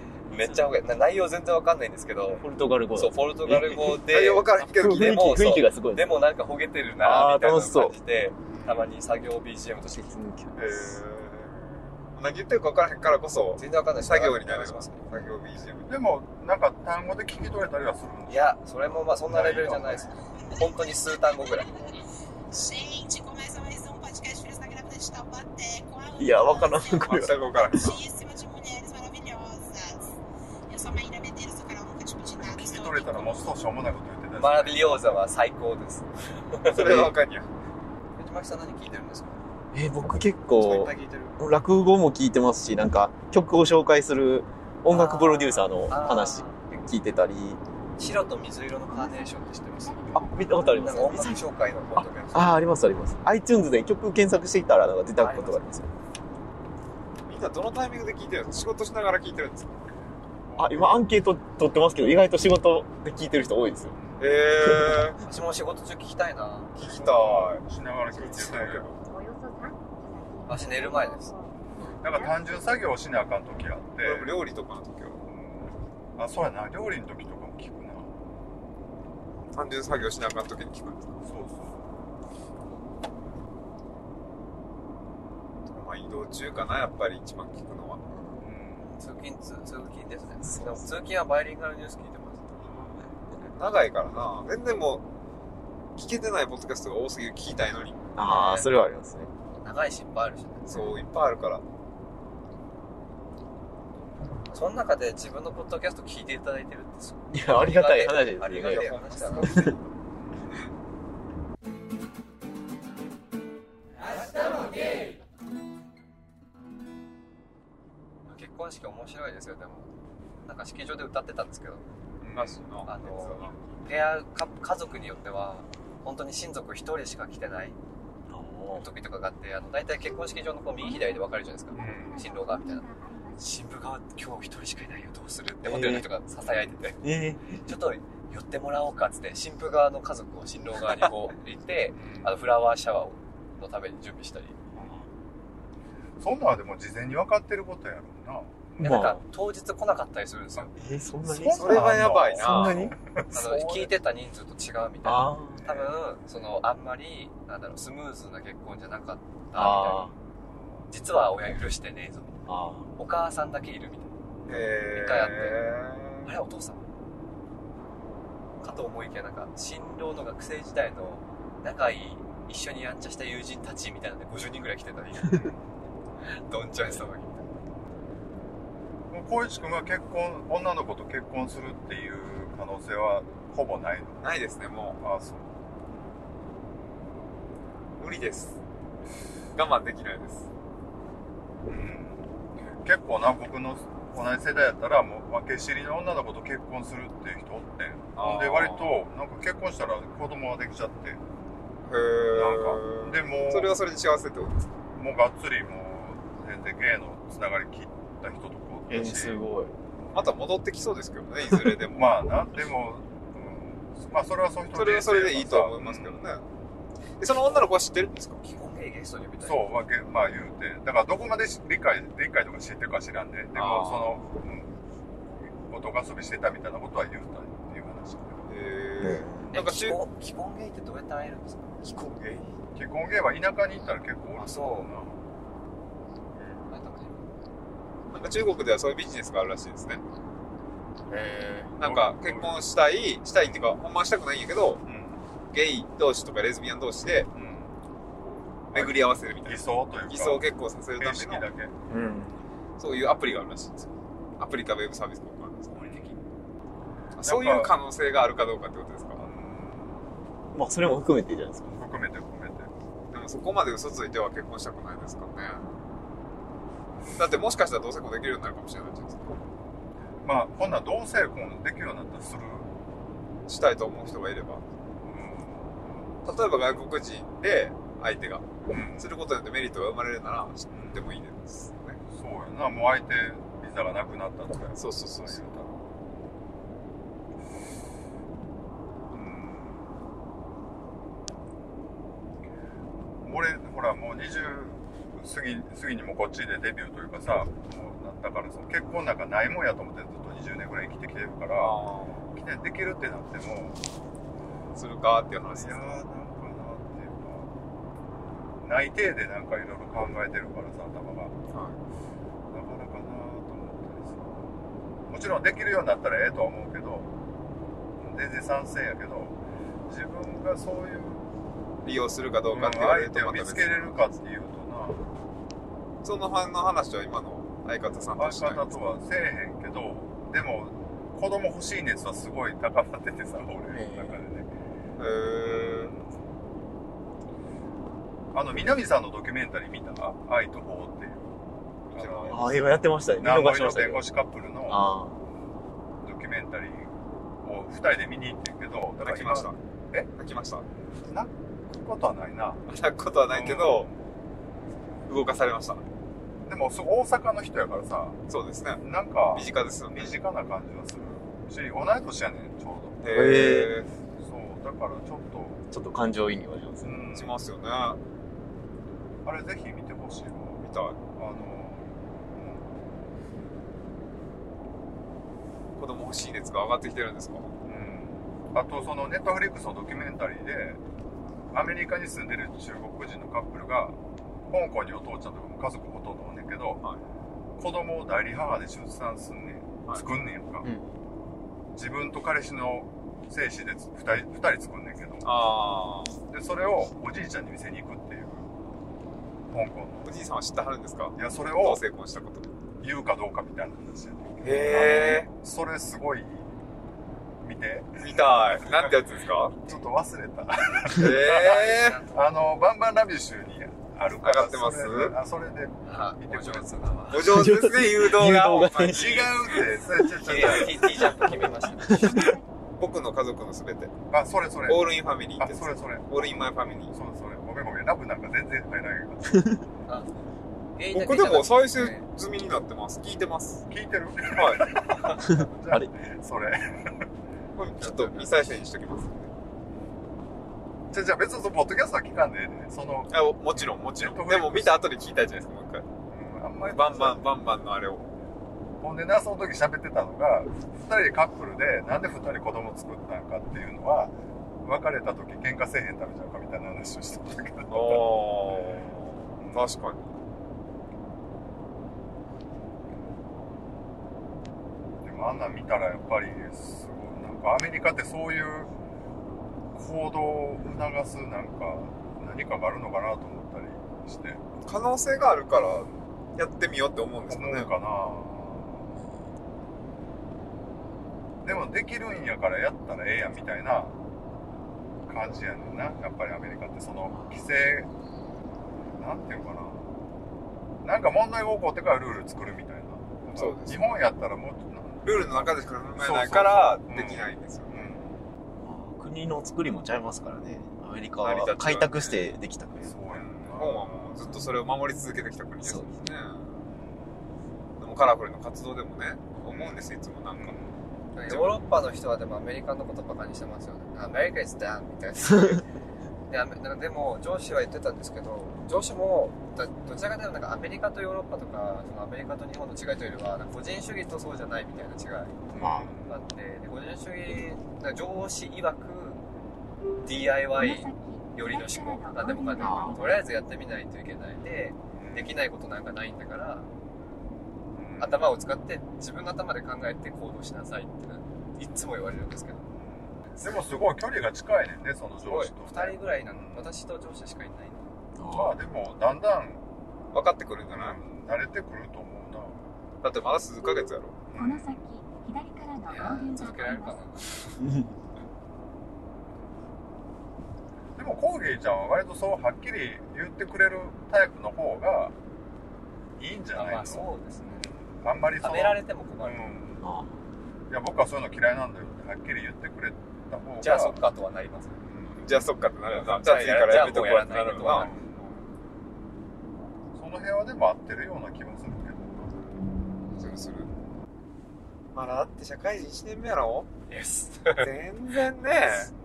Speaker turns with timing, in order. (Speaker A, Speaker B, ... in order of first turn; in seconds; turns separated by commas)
Speaker A: 0.2-10.7, Speaker B: 0.3-0.6, Speaker B: 2.4-6.2, Speaker C: 4.1-5.5, Speaker B: 7.0-8.0, Speaker D: 8.5-8.9, Speaker B: 9.9-10.8, Speaker C: 10.6-16.0, Speaker A: 13.6-15.0, Speaker D: 15.9-20.1, Speaker A: 18.3-21.9, Speaker E: 20.5-30.2, Speaker B: 26.2-27.8, Speaker C: 27.0-28.0, Speaker E: 30.7-33.5, Speaker D: 32.4-35.2, Speaker A: 34.4-37.1, Speaker C: 36.6-37.5, Speaker A: 38.2-39.4, Speaker B: 39.7-47.6, Speaker A: 40.6-41.3, Speaker A: 44.9-46.8, Speaker A: 48.0-52.6, Speaker F: 48.9-51.4, Speaker B: 50.1-55.9, Speaker A: 55.2-55.8, Speaker C: 57.2-59.7, Speaker D: 60.5-61.1, Speaker B: 60.6-64.0, Speaker D: 64.0-64.4, Speaker C: 64.2-65.2, Speaker B: 64.6-65.0, Speaker A: 65.2-66.8, Speaker C: 66.8-69.0, Speaker D: 66.8-68.9, Speaker F: 69.0-72.8, Speaker A: 70.5-71.3, Speaker D: 72.0-74.3, Speaker C: 74.0-75.2, Speaker D: 75.3-78.1, Speaker C: 79.5-81.1, Speaker D: 81.2-81.8, Speaker C: 85.7-88.0, Speaker B: 88.1-88.4, Speaker D: 88.4-88.9, Speaker A: 88.8-92.6, Speaker B: 90.4-90.9, Speaker B: 92.7-93.5, Speaker C: 93.5-95.0, Speaker C: 96.0-98.0, Speaker B: 98.1-99.3, Speaker A: 98.2-98.7, Speaker A: 99.6-100.9, Speaker C: 100.7-101.6, Speaker B: 100.7-101.0, Speaker A: 104.5-109.7, Speaker B: 107.3-109.8, Speaker C: 108.5-109.8, Speaker A: 118.2-119.9, Speaker A: 120.4-121.8, Speaker D: 122.2-122.6, Speaker C: 122.3-123.6, Speaker A: 122.8-127.8, Speaker B: 128.3-128.9, Speaker A: 128.7-132.8, Speaker F: 130.8-133.6, Speaker D: 131.8-132.2, Speaker A: 133.4-137.0, Speaker B: 135.6-136.1, Speaker B: 137.0-137.7, Speaker A: 137.6-144.6, Speaker D: 141.9-142.3, Speaker B: 144.8-145.0, Speaker D: 146.2-149.0, Speaker B: 148.8-149.2, Speaker A: 148.8-150.7, Speaker B: 150.8-153.0, Speaker D: 151.2-153.9, Speaker C: 151.5-152.9, Speaker A: 153.3-160.1, Speaker B: 155.0-155.8, Speaker B: 159.5-160.1, Speaker A: 160.9-162.4, Speaker B: 162.5-162.9, Speaker A: 163.0-165.7, Speaker C: 164.5-166.3, Speaker A: 166.2-166.8, Speaker A: 168.6-175.5, Speaker D: 175.3-175.6, Speaker A: 176.5-177.5, Speaker D: 179.1-184.3, Speaker C: 184.2-185.0, Speaker D: 185.0-185.5, Speaker C: 188.0-188.6, Speaker C: 189.5-190.5, Speaker D: 191.7-192.3, Speaker D: 192.8-201.2, Speaker C: 198.2-199.0, Speaker C: 201.8-204.7, Speaker D: 202.3-203.8, Speaker D: 204.9-209.4, Speaker B: 208.9-209.7, Speaker C: 210.1-212.2, Speaker D: 211.9-216.3, Speaker C: 214.7-216.4, Speaker C: 217.2-218.4, Speaker A: 218.4-219.7, Speaker D: 219.4-224.7, Speaker C: 223.5-224.4, Speaker D: 225.4-228.5, Speaker C: 228.5-230.0, Speaker B: 229.0-229.5, Speaker A: 229.5-231.8, Speaker C: 231.8-232.5, Speaker D: 232.7-235.2, Speaker A: 234.3-234.9, Speaker A: 236.7-237.3, Speaker C: 238.1-240.0, Speaker B: 241.1-241.7, Speaker C: 241.8-244.8, Speaker D: 241.8-242.6, Speaker D: 243.4-243.7, Speaker D: 244.8-245.2, Speaker C: 245.5-247.3, Speaker D: 247.3-247.7, Speaker C: 248.2-251.4, Speaker D: 248.7-251.7, Speaker B: 251.9-252.4, Speaker C: 252.8-256.1, Speaker D: 255.7-256.2, Speaker C: 257.1-259.2, Speaker D: 257.2-257.8, Speaker D: 259.2-260.0, Speaker B: 260.5-261.8, Speaker D: 261.6-262.7, Speaker C: 263.1-265.7, Speaker C: 267.1-269.4, Speaker D: 270.2-272.7, Speaker C: 273.5-274.6, Speaker D: 275.0-276.5, Speaker C: 276.2-282.0, Speaker D: 278.7-279.1, Speaker D: 280.7-281.1, Speaker D: 282.1-285.8, Speaker C: 284.8-285.5, Speaker D: 289.1-289.9, Speaker D: 293.2-301.8, Speaker C: 301.6-302.2, Speaker D: 302.3-303.8, Speaker C: 304.7-306.0, Speaker D: 305.4-307.5, Speaker D: 308.6-311.4, Speaker C: 311.5-311.8, Speaker D: 312.5-314.5, Speaker D: 315.1-317.1, Speaker D: 318.0-321.2, Speaker C: 321.8-324.0, Speaker D: 322.5-325.1, Speaker C: 326.0-328.7, Speaker D: 328.2-334.5, Speaker B: 333.7-334.2, Speaker C: 335.0-335.9, Speaker D: 335.4-336.2, Speaker D: 338.3-341.4, Speaker C: 341.9-342.5, Speaker D: 341.9-344.9, Speaker B: 342.3-344.1, Speaker B: 344.7-345.1, Speaker D: 346.0-350.1, Speaker C: 349.0-349.6, Speaker C: 350.2-350.6, Speaker D: 351.1-352.6, Speaker C: 352.7-353.9, Speaker D: 353.3-353.9, Speaker C: 355.1-355.8, Speaker D: 356.4-358.2, Speaker C: 358.3-358.8, Speaker D: 358.8-363.6, Speaker C: 359.3-360.2, Speaker C: 363.0-363.9, Speaker B: 363.1-363.8, Speaker D: 364.2-365.6, Speaker B: 365.7-367.0, Speaker D: 366.8-367.3, Speaker C: 367.1-368.0, Speaker D: 369.2-370.6, Speaker C: 370.6-371.0, Speaker D: 371.1-372.8, Speaker C: 375.8-377.5, Speaker D: 377.6-380.8, Speaker D: 381.5-384.0, Speaker D: 384.5-386.8, Speaker D: 387.6-390.7, Speaker D: 391.7-395.3, Speaker C: 395.2-396.2, Speaker D: 396.3-398.5, Speaker D: 399.5-400.1, Speaker C: 400.0-402.5, Speaker D: 401.1-401.8, Speaker D: 402.8-406.5, Speaker C: 404.4-405.3, Speaker B: 404.7-405.2, Speaker D: 407.4-408.9, Speaker C: 408.0-409.7, Speaker D: 409.6-416.8, Speaker C: 410.9-412.0, Speaker A: 411.2-412.7, Speaker C: 414.2-415.2, Speaker A: 415.8-417.2, Speaker C: 417.1-419.9, Speaker B: 417.2-419.3, Speaker D: 418.9-421.2, Speaker A: 420.1-422.3, Speaker B: 420.3-422.4, Speaker F: 422.0-422.4, Speaker C: 422.8-423.9, Speaker D: 424.1-429.5, Speaker C: 424.6-426.9, Speaker B: 429.3-429.6, Speaker A: 429.9-430.1, Speaker A: 430.8-432.1, Speaker C: 430.9-433.6, Speaker D: 433.7-437.1, Speaker C: 434.3-435.1, Speaker B: 435.2-435.9, Speaker C: 437.6-439.3, Speaker A: 437.8-438.5, Speaker D: 440.9-444.9, Speaker C: 443.1-445.8, Speaker D: 446.1-447.3, Speaker C: 446.7-448.1, Speaker D: 448.8-458.8, Speaker C: 457.7-460.1, Speaker D: 459.4-459.7, Speaker D: 465.0-468.7, Speaker D: 469.7-474.4, Speaker C: 474.6-477.7, Speaker D: 477.3-478.9, Speaker D: 481.4-483.9, Speaker D: 485.1-487.9, Speaker D: 489.0-489.9, Speaker D: 490.8-498.2, Speaker C: 493.4-494.0, Speaker C: 495.0-497.9, Speaker B: 498.6-503.0, Speaker C: 501.2-502.3, Speaker D: 502.8-504.6, Speaker C: 503.1-506.6, Speaker B: 505.6-505.9, Speaker C: 507.8-510.6, Speaker D: 509.4-510.8, Speaker A: 511.1-515.6, Speaker C: 511.3-511.6, Speaker A: 516.3-525.4, Speaker D: 525.5-526.1, Speaker B: 525.5-525.9, Speaker A: 526.1-529.2, Speaker A: 530.0-536.7, Speaker F: 530.5-533.3, Speaker B: 532.6-533.0, Speaker D: 535.0-535.3, Speaker D: 537.7-538.4, Speaker A: 538.0-542.6, Speaker D: 542.8-546.7, Speaker A: 545.2-547.9, Speaker B: 548.1-548.6, Speaker D: 548.3-549.6, Speaker C: 550.1-551.0, Speaker D: 550.7-552.6, Speaker C: 553.0-554.2, Speaker D: 554.3-554.8, Speaker F: 554.4-557.0, Speaker A: 555.9-557.6, Speaker B: 557.6-557.9, Speaker D: 561.0-565.1, Speaker D: 566.2-567.1, Speaker A: 566.5-567.7, Speaker D: 567.6-569.8, Speaker A: 568.4-569.5, Speaker B: 569.8-570.1, Speaker D: 570.7-574.0, Speaker A: 573.6-574.8, Speaker D: 574.9-575.3, Speaker C: 575.2-578.3, Speaker A: 575.9-577.9, Speaker D: 577.5-578.3, Speaker D: 579.9-582.4, Speaker C: 583.1-583.7, Speaker C: 584.9-586.7, Speaker A: 586.9-587.7, Speaker C: 587.5-588.9